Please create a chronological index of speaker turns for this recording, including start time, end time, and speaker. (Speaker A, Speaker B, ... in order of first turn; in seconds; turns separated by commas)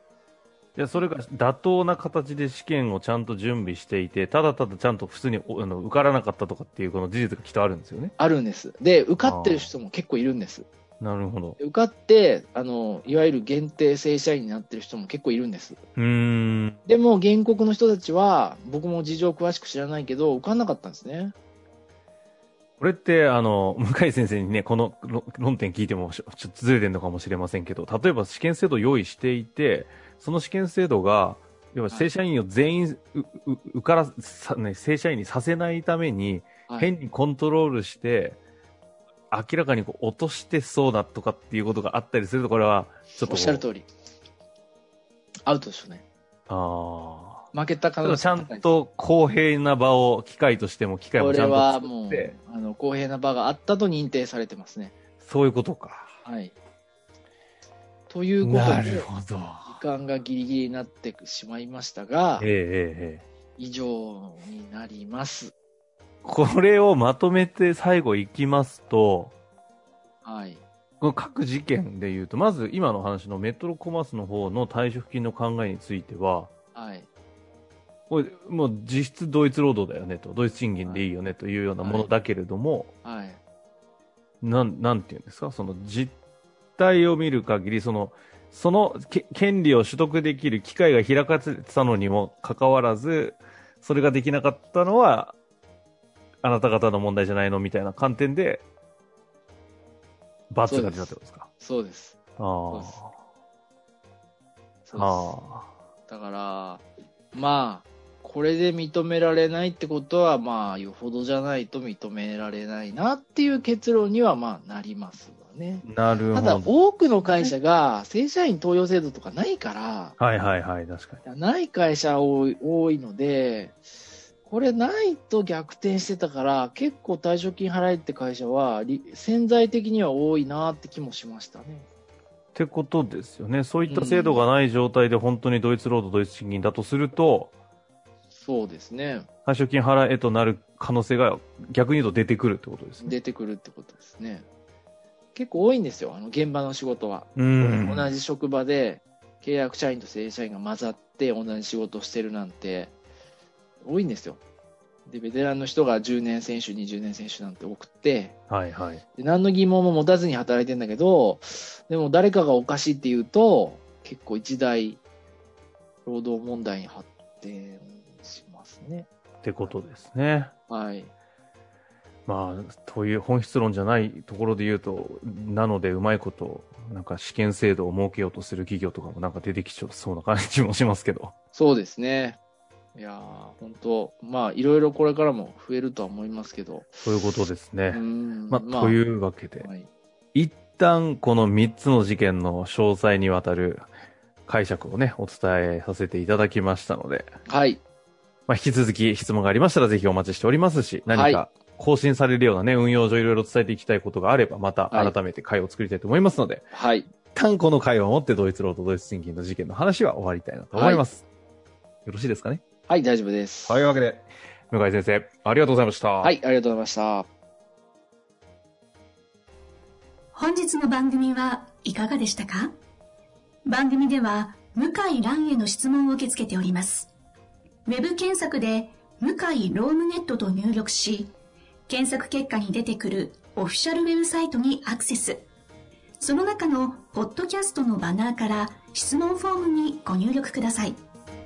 Speaker A: 0.8-8.1, Speaker B: 8.2-10.7, Speaker A: 9.2-9.7, Speaker A: 11.0-11.6, Speaker B: 11.6-15.8, Speaker A: 16.0-16.8, Speaker B: 16.9-21.4, Speaker A: 22.8-38.4, Speaker A: 39.3-43.7, Speaker B: 43.2-43.9, Speaker B: 45.5-46.0, Speaker A: 46.5-47.5, Speaker B: 47.5-48.6, Speaker A: 48.0-52.4, Speaker B: 51.2-54.9, Speaker A: 55.2-56.2, Speaker B: 56.2-56.5, Speaker B: 58.1-59.1, Speaker A: 58.4-59.8, Speaker B: 59.7-62.5, Speaker A: 62.4-63.2, Speaker B: 63.6-65.5, Speaker A: 66.2-69.3, Speaker B: 70.2-70.6, Speaker A: 71.0-76.5, Speaker B: 76.8-77.1, Speaker A: 78.1-82.9, Speaker B: 81.8-82.1, Speaker B: 83.0-83.4, Speaker A: 84.4-86.2, Speaker A: 86.8-95.4, Speaker A: 96.4-98.7, Speaker A: 100.5-101.5, Speaker B: 100.7-102.2, Speaker A: 102.4-103.1, Speaker B: 104.9-105.3, Speaker A: 105.0-105.7, Speaker B: 106.1-120.2, Speaker A: 115.8-116.7, Speaker A: 117.3-117.5, Speaker A: 120.2-121.2, Speaker B: 121.2-123.8, Speaker B: 124.5-131.9, Speaker A: 132.6-137.5, Speaker B: 133.8-134.5, Speaker B: 138.4-139.3, Speaker A: 139.5-143.2, Speaker B: 143.0-144.5, Speaker B: 145.3-152.9, Speaker A: 147.4-148.1, Speaker B: 153.8-154.4, Speaker B: 155.1-158.4, Speaker A: 158.5-159.0, Speaker B: 159.2-165.0, Speaker B: 166.1-169.1, Speaker A: 169.4-170.5, Speaker B: 170.7-171.1, Speaker A: 172.3-181.3, Speaker B: 181.5-182.4, Speaker B: 182.9-187.0, Speaker A: 187.0-189.7, Speaker B: 187.9-189.0, Speaker B: 189.6-189.9, Speaker A: 190.3-193.9, Speaker A: 194.5-197.3, Speaker B: 197.5-197.8, Speaker A: 198.5-206.7, Speaker B: 201.1-201.4, Speaker B: 206.7-207.1, Speaker A: 207.3-211.3, Speaker B: 210.7-211.0, Speaker A: 212.1-212.6, Speaker B: 212.9-213.8, Speaker A: 213.7-216.3, Speaker B: 216.2-217.3, Speaker C: 220.3-222.7, Speaker C: 223.7-227.1, Speaker C: 227.9-231.3, Speaker C: 231.9-235.4, Speaker C: 236.2-241.0